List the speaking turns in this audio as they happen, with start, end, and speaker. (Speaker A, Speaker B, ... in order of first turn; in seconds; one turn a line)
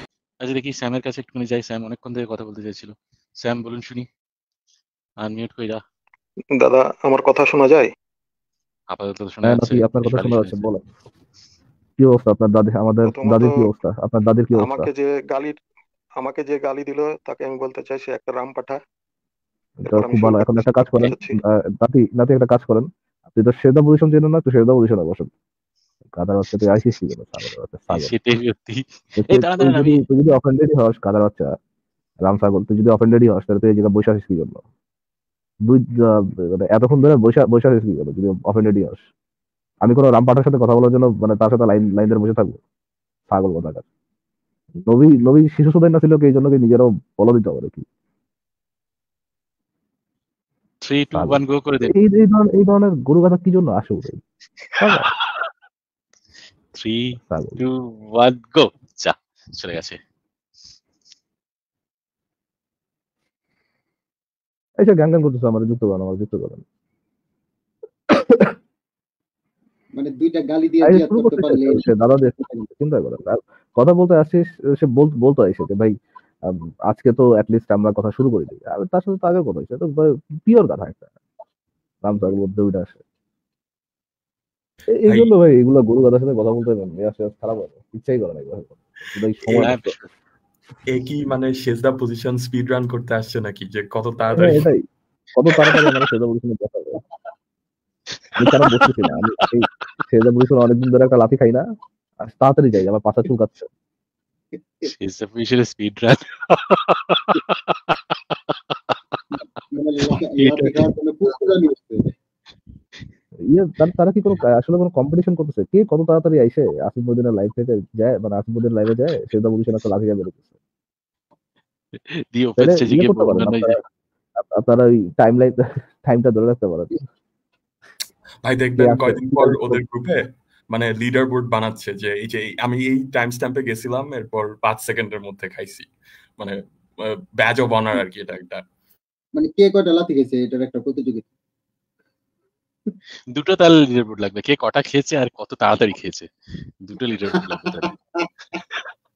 Speaker A: 0.4-4.1
Speaker A: 5.2-5.8
Speaker B: 6.6-7.9
Speaker A: 8.9-10.6
Speaker C: 9.4-10.8
Speaker C: 12.0-14.9
Speaker B: 13.0-13.7
Speaker B: 14.5-15.6
Speaker B: 16.2-18.8
Speaker C: 19.8-25.3
Speaker B: 19.9-21.4
Speaker C: 26.1-28.1
Speaker A: 27.9-30.0
Speaker C: 29.2-31.6
Speaker C: 32.2-34.6
Speaker C: 35.6-39.0
Speaker C: 39.8-42.6
Speaker C: 43.3-43.9
Speaker C: 44.9-47.9
Speaker A: 50.8-51.9
Speaker C: 51.1-54.2
Speaker C: 54.8-55.1
Speaker A: 54.8-55.5
Speaker A: 56.7-60.0
Speaker C: 57.3-57.6
Speaker C: 64.8-66.6
Speaker C: 68.1-68.5
Speaker D: 70.0-72.7
Speaker C: 70.8-75.9
Speaker C: 76.5-81.0
Speaker C: 82.0-83.0
Speaker C: 84.9-89.9
Speaker A: 89.5-90.1
Speaker E: 90.9-94.7
Speaker C: 94.3-94.8
Speaker C: 95.4-97.0
Speaker A: 98.2-99.1
Speaker C: 98.4-101.7
Speaker C: 102.2-103.7
Speaker A: 104.8-109.4
Speaker D: 109.7-112.1
Speaker A: 110.0-110.9
Speaker C: 113.5-120.5
Speaker A: 122.3-123.8
Speaker C: 122.6-123.8
Speaker C: 124.4-127.0
Speaker E: 128.4-138.6
Speaker C: 128.8-129.8
Speaker D: 139.4-141.3
Speaker A: 143.3-146.3
Speaker A: 146.8-147.9
Speaker D: 147.3-148.3
Speaker A: 148.5-148.9